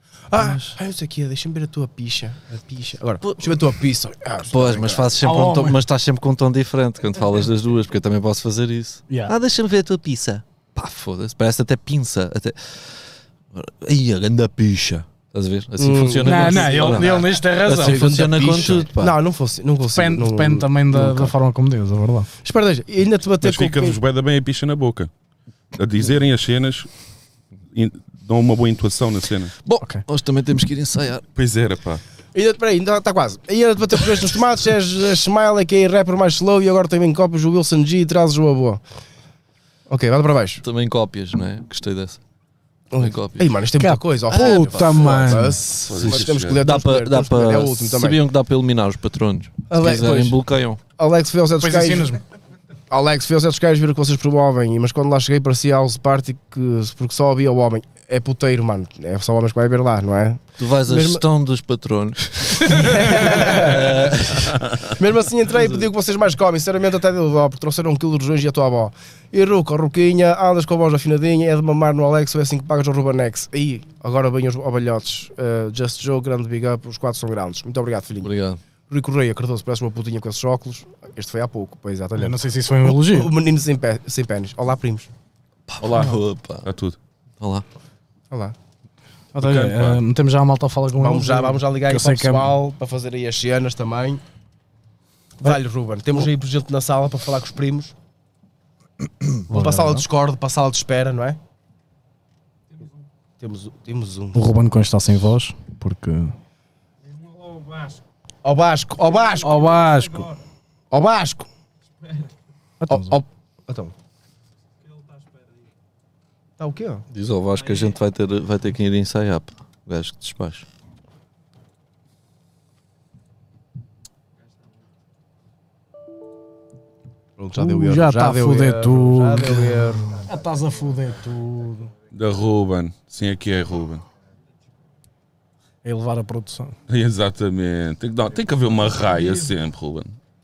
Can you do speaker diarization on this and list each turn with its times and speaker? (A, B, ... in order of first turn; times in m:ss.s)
0:00.3-0:05.2 A
0:00.3-0:00.8 B
0:03.2-0:03.6 B
0:04.5-0:19.2 B
0:05.2-0:05.8 C
0:09.1-0:09.3 C
0:15.8-0:21.3 A
0:16.2-0:18.1 C
0:19.9-0:22.3 C
0:22.4-0:24.0 A
0:23.4-0:25.1 D
0:25.7-0:26.9 D
0:27.7-0:29.5 D
0:29.6-0:31.2 B
0:31.3-0:32.0 D
0:32.3-0:38.8 A
0:39.9-0:40.6 A
0:40.6-0:42.2 B
0:42.9-0:48.2 A
0:43.0-0:43.6 B
0:43.8-0:45.6 C
0:45.9-0:46.6 D
0:46.5-0:50.8 B
0:49.7-0:50.4 A
0:51.0-0:52.1 A
0:51.6-0:52.2 C
0:52.9-1:01.2 A
1:00.6-1:04.6 B
1:02.6-1:18.3 A
1:05.5-1:05.9 B
1:18.2-1:18.6 B
1:18.9-1:25.1 A
1:22.2-1:23.3 C
1:25.7-1:26.7 B
1:25.8-1:27.0 D
1:27.4-1:27.6 B
1:28.3-1:28.6 A
1:29.3-1:32.5 C
1:29.4-1:30.0 D
1:31.0-1:34.2 A
1:35.4-1:37.9 A
1:39.5-1:41.4 A
1:39.5-1:40.0 C
1:43.4-1:44.4 A
1:44.3-1:46.3 C
1:48.4-1:49.7 A
1:49.4-1:50.3 C
1:50.9-1:51.5 A
1:52.8-1:53.2 C
1:52.9-1:53.9 A
1:56.6-1:57.0 A
1:57.1-2:00.7 B
2:07.4-2:10.3 A
2:07.6-2:11.9 C
2:12.1-2:14.0 D
2:15.8-2:16.7 C
2:16.9-2:20.2 D